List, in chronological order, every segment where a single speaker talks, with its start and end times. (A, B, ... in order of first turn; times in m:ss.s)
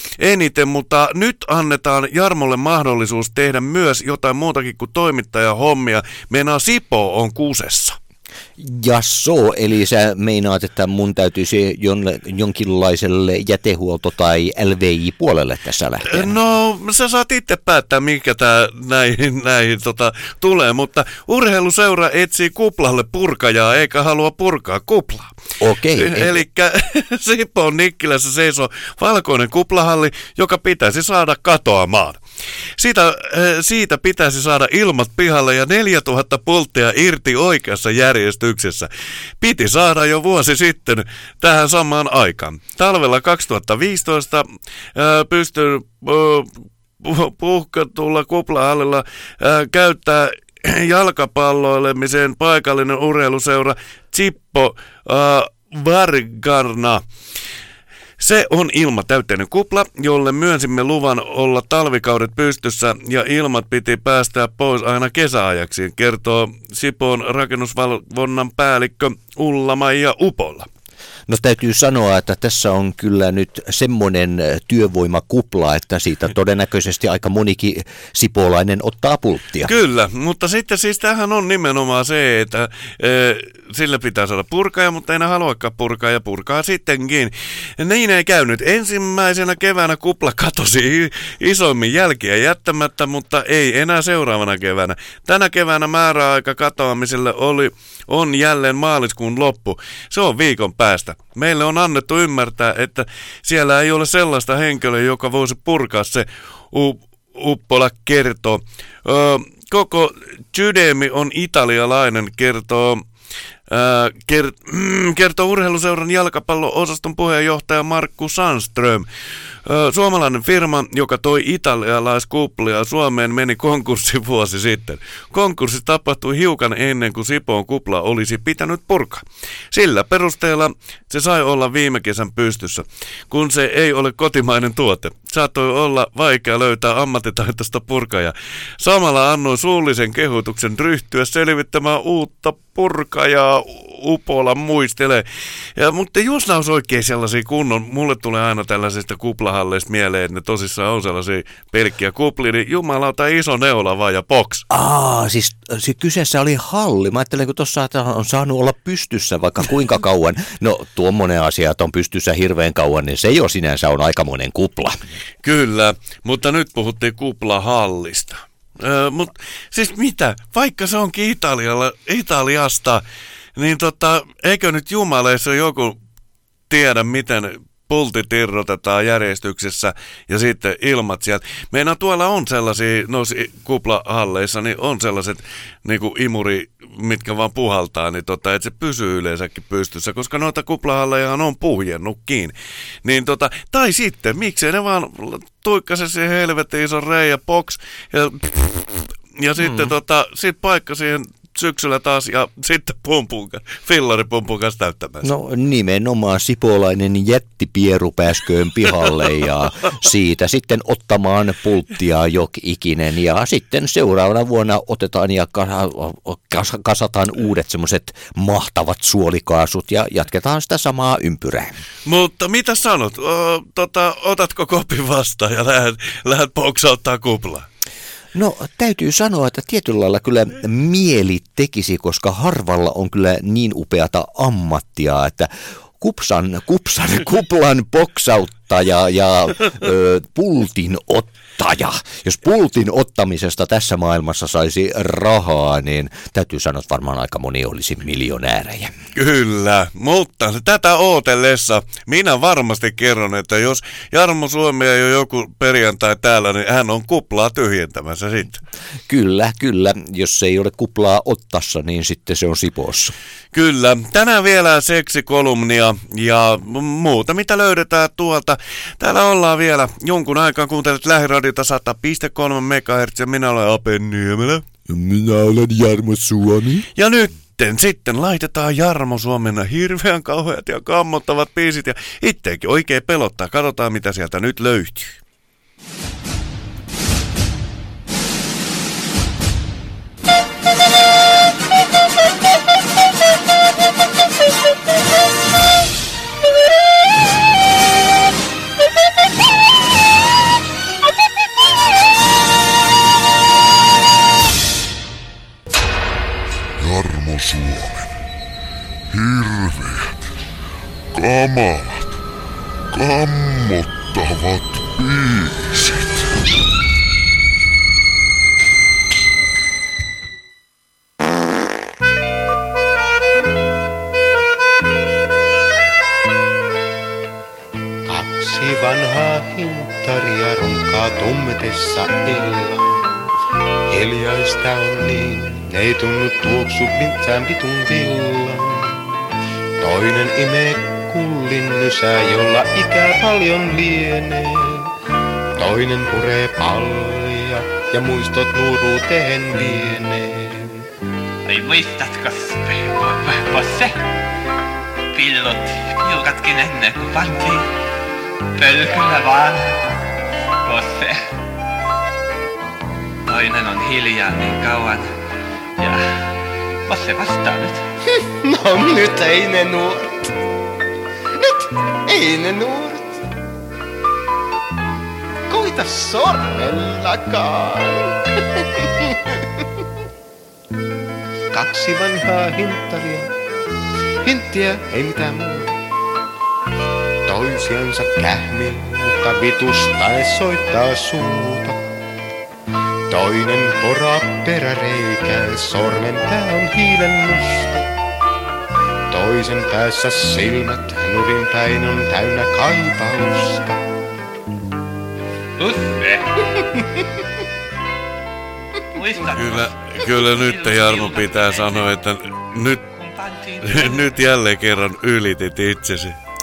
0:00.2-0:08.0 A
0:08.6-0:16.3 B
0:16.1-0:25.3 A
0:25.6-0:26.4 B
0:26.0-0:32.2 A
0:32.8-0:38.9 A
0:39.4-0:57.0 A
0:58.2-1:10.7 A
1:11.3-1:19.7 B
1:19.6-1:53.0 A
1:53.7-1:59.1 A
1:59.6-2:25.2 A
2:25.8-2:34.6 A
2:34.7-2:45.0 B
2:45.4-2:53.0 A
2:53.6-2:56.0 A
2:56.7-3:25.3 A
3:19.6-3:19.9 B
3:25.2-3:41.7 B
3:42.1-3:47.7 A
3:48.3-4:08.9 B
4:09.2-4:18.6 A
4:19.1-4:23.1 B
4:23.5-4:34.6 A
4:34.9-4:36.9 B
4:37.0-4:45.2 A
5:06.8-5:08.2 C
5:09.1-5:10.3 C
5:11.1-5:12.2 C
5:12.9-5:16.3 C
5:28.1-5:32.9 D
5:33.9-5:39.1 D
5:39.8-5:44.9 D
5:45.6-5:50.9 D
5:51.4-5:54.1 E
5:55.1-5:57.7 E
5:58.6-5:59.9 E
6:00.6-6:01.2 E
6:03.3-6:05.1 E
6:05.8-6:07.9 E
6:08.2-6:10.1 D
6:12.1-6:13.2 D
6:15.5-6:19.2 D
6:21.5-6:23.3 D
6:24.2-6:25.8 D
6:27.3-6:31.8 D
6:33.1-6:37.9 D
6:39.1-6:43.8 D
6:45.6-6:46.3 E
6:48.9-6:52.0 E
6:49.3-6:52.8 A
6:52.9-6:54.2 E
6:53.6-6:56.2 A